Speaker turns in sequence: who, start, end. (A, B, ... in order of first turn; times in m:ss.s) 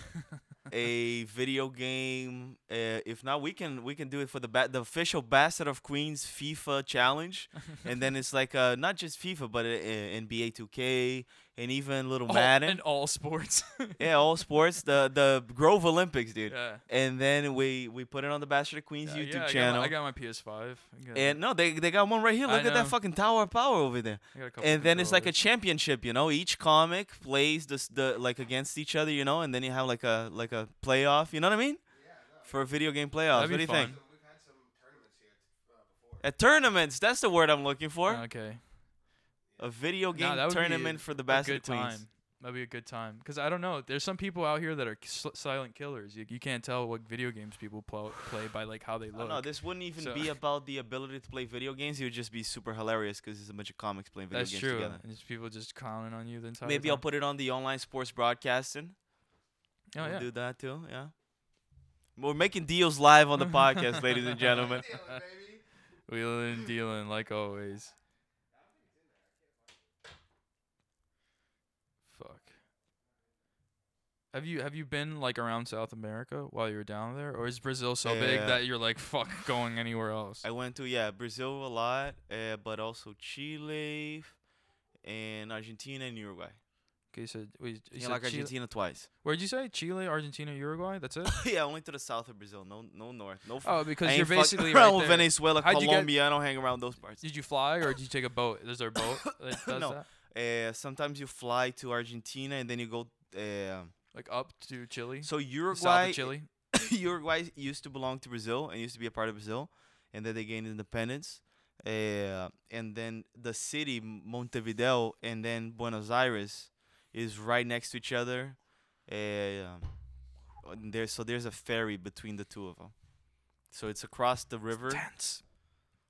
0:00.7-0:12.8 A
0:12.3-0:14.0 B
0:14.0-0:19.9 A
0:16.5-0:16.8 B
0:19.0-0:21.4 B
0:21.1-0:31.8 A
0:22.5-0:23.0 B
0:24.3-0:25.3 B
0:31.9-0:32.7 C
0:32.4-0:34.0 A
0:33.3-0:34.0 B
0:33.5-0:36.3 C
0:36.2-0:38.3 A
0:38.1-0:38.6 B
0:39.5-0:39.8 C
0:39.6-0:42.0 A
0:40.1-0:50.3 B
0:49.1-0:55.0 A
0:54.3-0:57.0 B
0:56.6-0:59.0 A
0:59.9-1:00.3 B
1:00.0-1:01.1 A
1:02.2-1:04.9 A
1:04.4-1:05.6 C
1:04.9-1:05.2 B
1:06.1-1:07.9 B
1:08.5-1:09.9 C
1:12.1-1:12.5 B
1:14.3-1:20.4 B
1:18.0-1:18.6 A
1:20.4-1:24.4 A
1:25.0-1:26.6 A
1:27.1-1:28.6 B
1:28.0-1:29.1 A
1:29.2-1:31.4 B
1:31.3-1:37.2 A
1:33.6-1:36.1 B
1:37.2-1:40.1 B
1:39.6-1:43.9 A
1:44.1-1:46.5 B
1:45.2-1:59.9 A
2:00.6-2:02.9 A
2:03.6-2:05.0 A
2:04.9-2:05.4 B